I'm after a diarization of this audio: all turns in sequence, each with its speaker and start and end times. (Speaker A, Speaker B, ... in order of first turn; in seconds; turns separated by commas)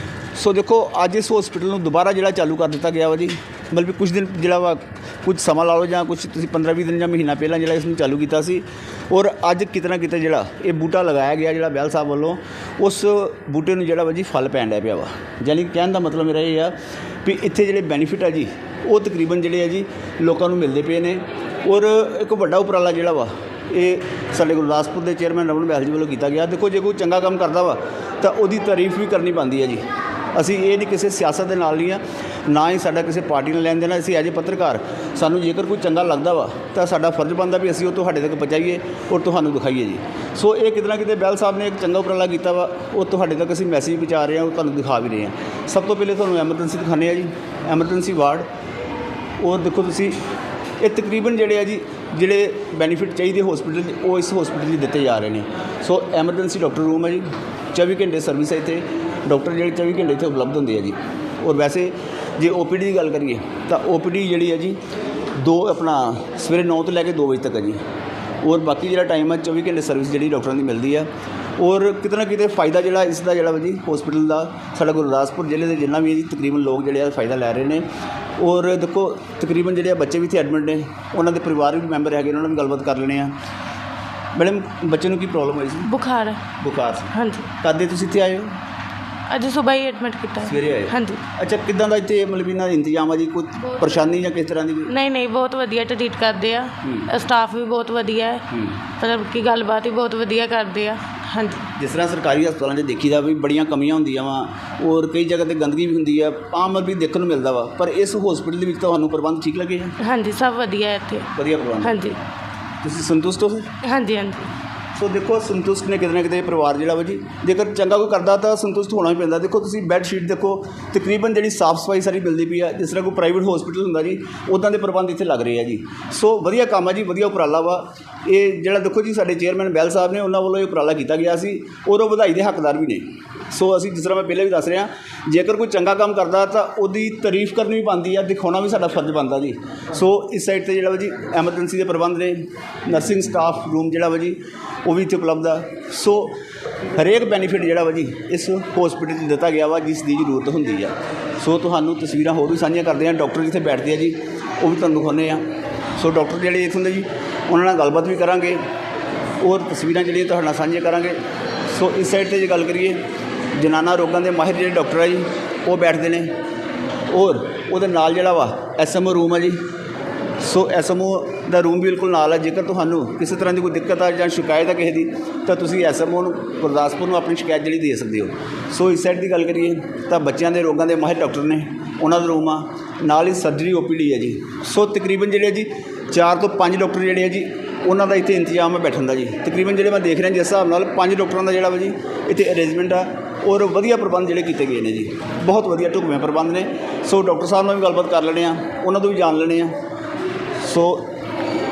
Speaker A: 0.3-29.8, Speaker A: 30.3-48.5, Speaker A: 49.4-50.2, Speaker A: 50.8-64.8, Speaker A: 65.3-67.8, Speaker A: 68.4-77.8, Speaker A: 78.4-83.3, Speaker A: 84.3-85.9, Speaker B: 85.8-86.4, Speaker A: 86.6-88.5, Speaker B: 87.1-87.5, Speaker B: 89.3-91.2, Speaker A: 90.4-94.9, Speaker B: 94.8-98.4, Speaker A: 96.8-97.1, Speaker A: 98.5-98.8, Speaker B: 99.0-101.6, Speaker A: 101.8-109.9, Speaker B: 110.0-111.3, Speaker A: 111.3-112.0, Speaker B: 111.8-112.2, Speaker A: 112.8-113.7, Speaker B: 113.8-114.5, Speaker A: 115.0-146.3, Speaker A: 146.9-155.4, Speaker A: 156.0-158.6, Speaker A: 159.4-163.0, Speaker A: 163.6-166.3, Speaker A: 167.1-169.6, Speaker A: 170.4-199.7, Speaker A: 200.6-201.1